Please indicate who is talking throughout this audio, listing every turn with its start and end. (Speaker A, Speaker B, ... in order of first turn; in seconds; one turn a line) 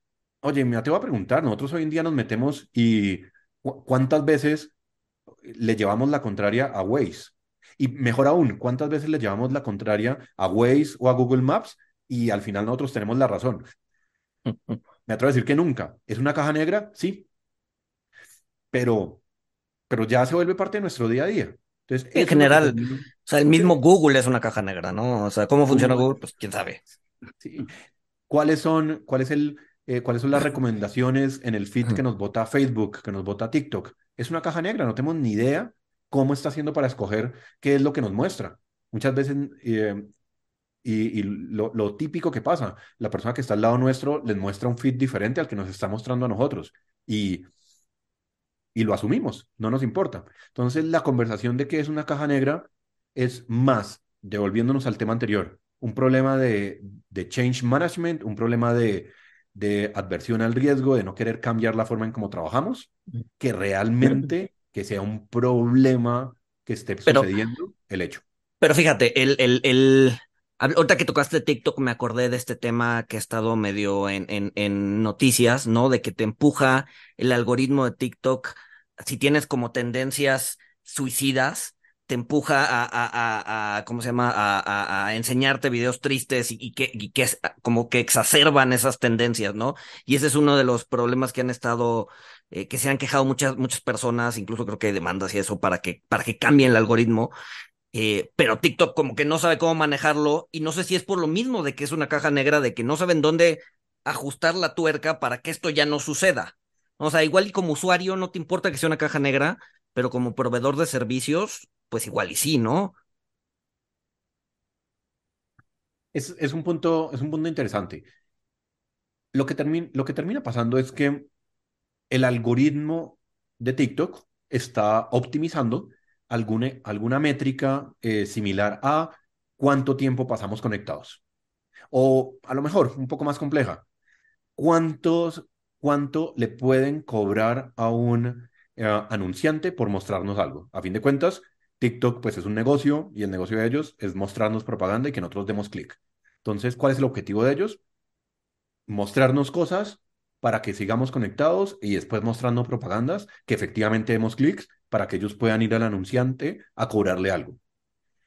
Speaker A: 0.4-4.7
Speaker A: 5.4-13.7
Speaker B: 14.4-14.8
Speaker A: 15.1-17.2
Speaker A: 18.7-19.2
Speaker A: 19.9-23.7
Speaker B: 22.1-26.8
Speaker A: 25.7-26.1
Speaker A: 27.4-27.7
Speaker A: 28.3-40.1
Speaker A: 40.8-47.5
Speaker A: 48.7-68.2
Speaker B: 68.6-97.3
Speaker B: 97.9-112.9
Speaker A: 116.1-118.0
Speaker A: 119.3-121.3
Speaker A: 122.1-131.2
Speaker A: 131.9-133.8
Speaker A: 134.6-147.8
Speaker A: 148.9-157.6